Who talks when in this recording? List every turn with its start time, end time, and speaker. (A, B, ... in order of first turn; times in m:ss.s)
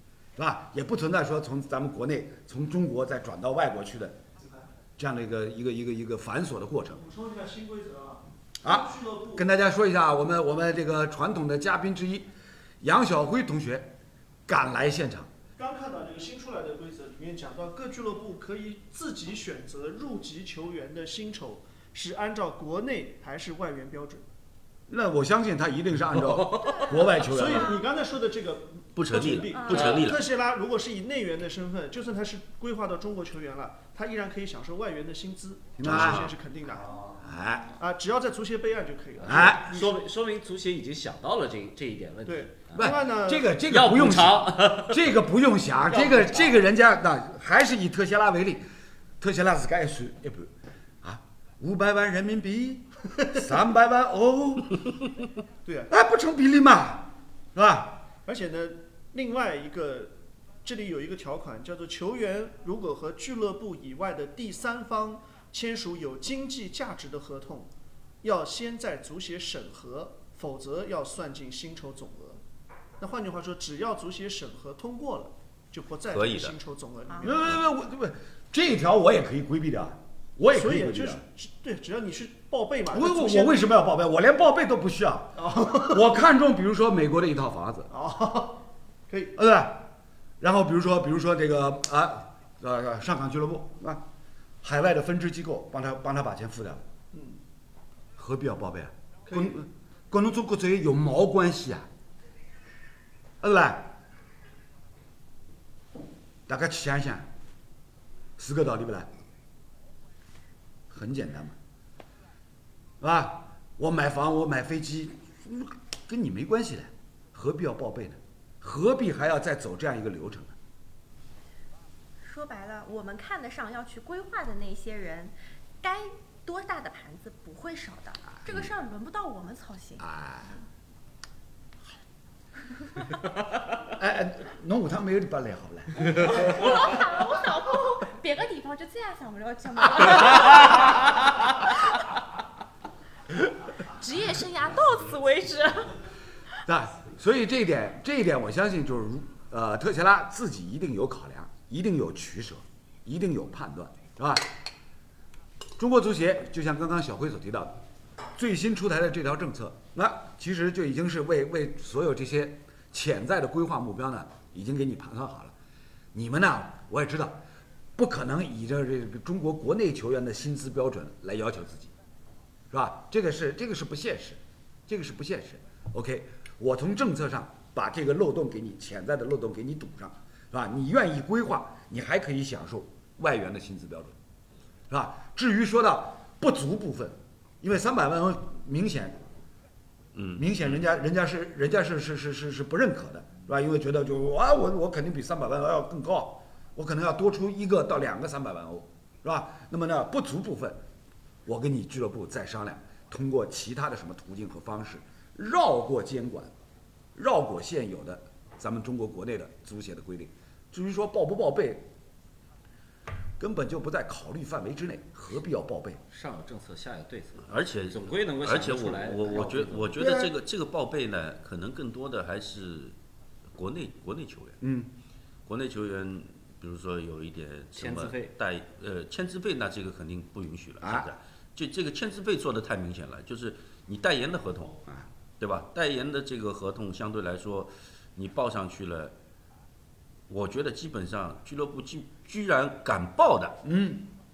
0:00.4-0:04.2 A
0:04.4-0:04.7 B
0:05.0-0:07.0 A
0:06.9-0:09.5 B
0:08.6-0:12.3 A
0:12.8-0:13.9 A
0:14.5-0:15.3 A
0:15.6-0:24.2 B
0:24.9-0:27.8 A
0:26.1-0:26.9 C
0:26.7-0:27.8 D
0:27.2-0:37.2 B
0:29.0-0:30.3 E
0:29.5-0:30.0 D
0:29.7-0:30.1 C
0:35.8-0:36.3 A
0:35.8-0:36.3 E
0:37.2-0:37.8 A
0:37.8-0:39.9 B
0:39.2-0:42.9 C
0:39.2-0:39.8 A
0:42.3-0:43.5 B
0:42.8-0:48.6 A
0:43.7-0:45.1 C
0:45.9-0:46.5 C
0:49.2-0:50.5 A
0:51.0-0:54.8 A
0:55.6-0:55.9 B
0:55.9-0:58.0 A
0:58.2-1:07.7 B
1:08.2-1:12.4 B
1:13.0-1:17.6 B
1:16.1-1:16.6 E
1:17.2-1:21.2 A
1:20.5-1:23.7 B
1:22.9-1:27.9 A
1:25.4-1:26.0 B
1:27.9-1:29.3 B
1:29.3-1:29.9 A
1:30.4-1:34.0 A
1:34.6-1:36.8 A
1:37.1-1:37.4 B
1:38.2-1:41.9 A
1:39.3-1:39.6 B
1:43.4-1:43.9 A
1:46.5-1:47.3 A
1:48.4-1:49.1 A
1:50.9-1:51.6 A
1:53.0-2:00.6 A
2:02.2-2:10.0 D
2:10.0-2:10.5 A
2:14.0-2:16.8 A
2:16.1-2:22.0 D
2:23.8-2:26.0 D
2:26.7-2:34.5 A
2:35.8-2:37.8 A
2:38.3-2:45.5 A
2:46.1-2:47.4 A
2:48.0-2:51.9 A
2:52.7-3:04.2 A
3:04.9-3:09.2 A
3:10.1-3:10.4 E
3:10.3-3:20.8 A
3:21.4-3:26.5 A
3:27.2-3:31.9 A
3:33.4-3:36.0 A
3:36.1-3:39.9 C
3:37.4-3:42.9 E
3:40.0-3:40.3 A
3:43.5-3:44.6 E
3:44.6-3:44.9 A
3:45.4-3:54.8 E
3:47.8-3:48.3 C
3:50.8-3:51.1 A
3:55.4-3:59.1 E
4:00.3-4:03.6 E
4:03.6-4:04.0 A